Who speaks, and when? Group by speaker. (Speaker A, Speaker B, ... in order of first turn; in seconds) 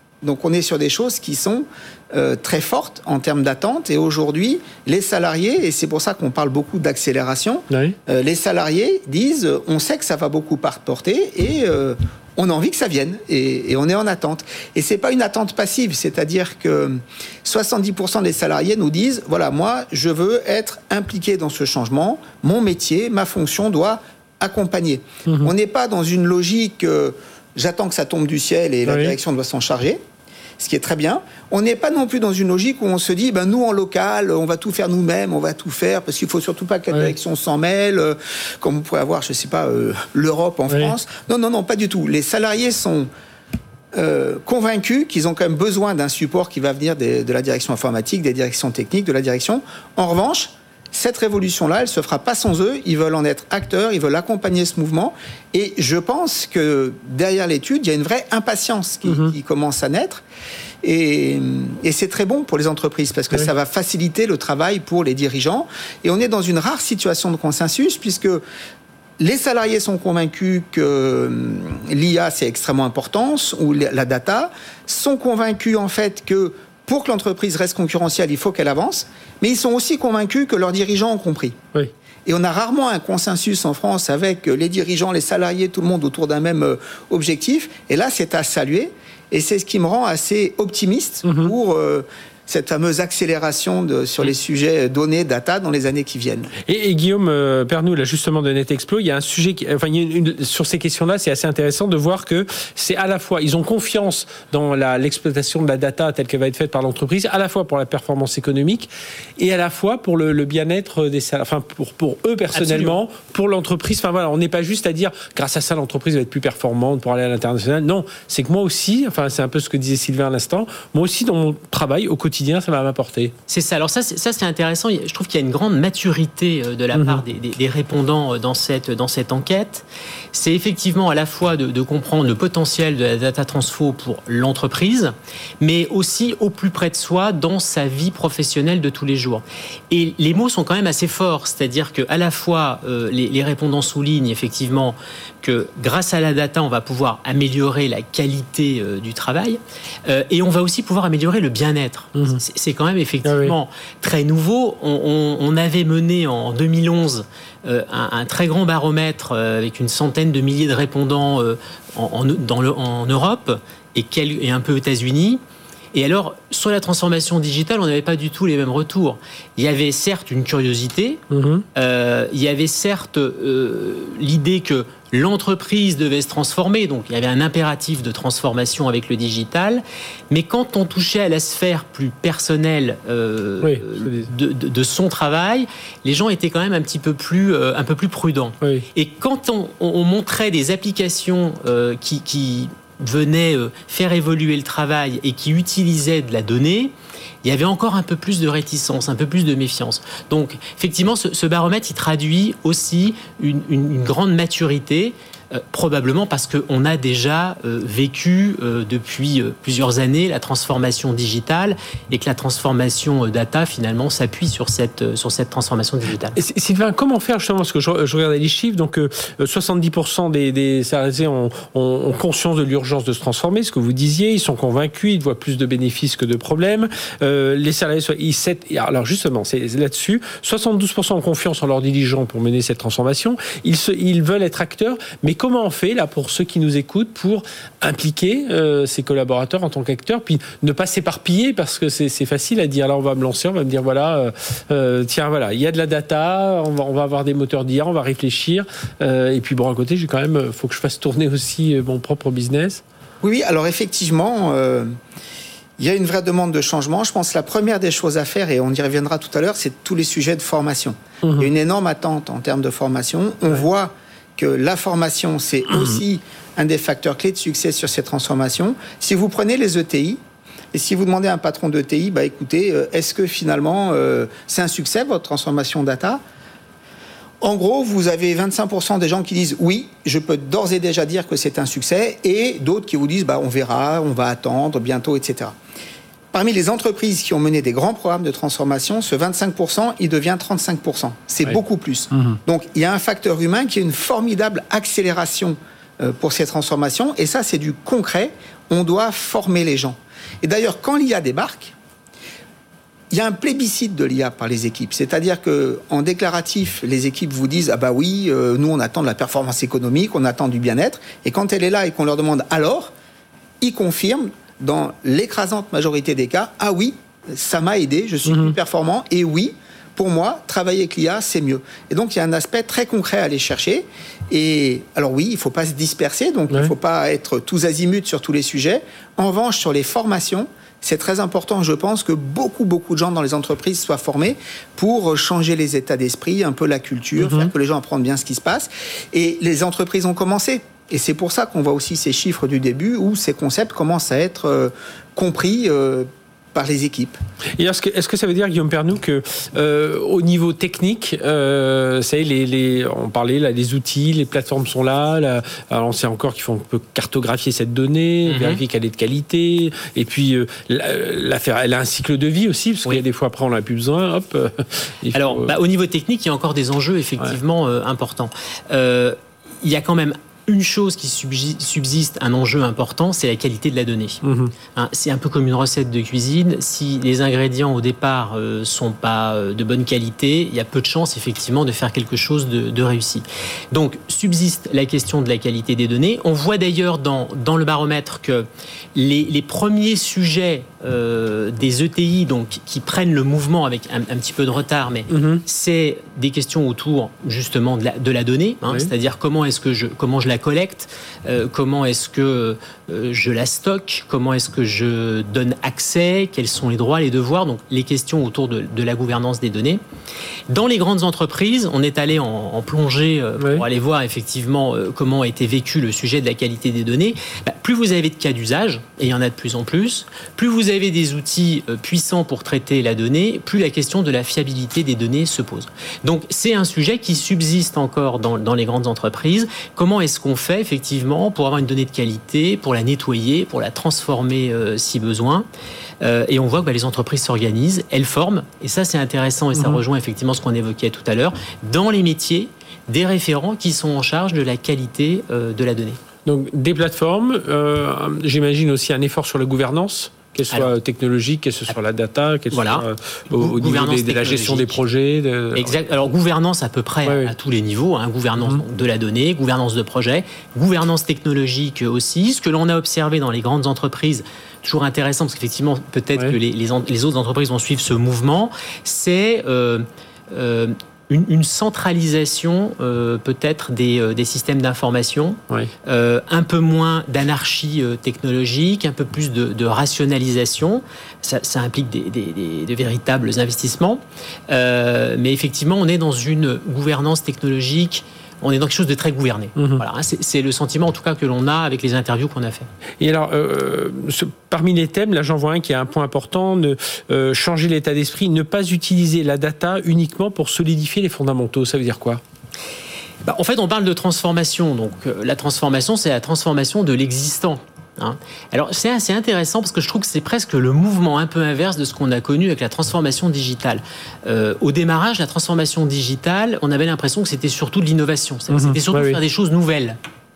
Speaker A: 0.2-30.0, 30.6-43.1, 43.9-60.2, 60.8-68.4, 69.2-81.6, 82.2-96.5, 253.2-254.9, 255.8-270.2, 270.7-276.2, 277.4-285.5, 286.3-301.7, 303.1-312.9, 313.6-347.2
Speaker B: 7.7-8.0, 28.9-29.2, 59.1-59.3, 91.2-91.5, 96.7-123.3, 126.9-127.2, 152.1-152.4, 153.2-153.6, 171.3-171.6, 183.6-184.3, 216.4-252.8, 261.2-261.5, 318.3-318.6, 337.2-337.5, 347.6-365.5, 374.2-374.5, 395.1-395.4, 413.4-413.6, 439.5-439.8, 446.2-455.8, 457.1-457.3, 489.6-489.8, 493.0-502.2, 518.5-519.2
Speaker C: 112.5-113.0, 123.5-165.4, 165.9-171.2, 171.8-196.9, 197.4-216.4, 358.3-358.6, 365.1-374.2, 374.8-409.8, 410.5-435.5, 436.0-446.0, 452.5-454.8, 455.5-492.7, 503.2-520.0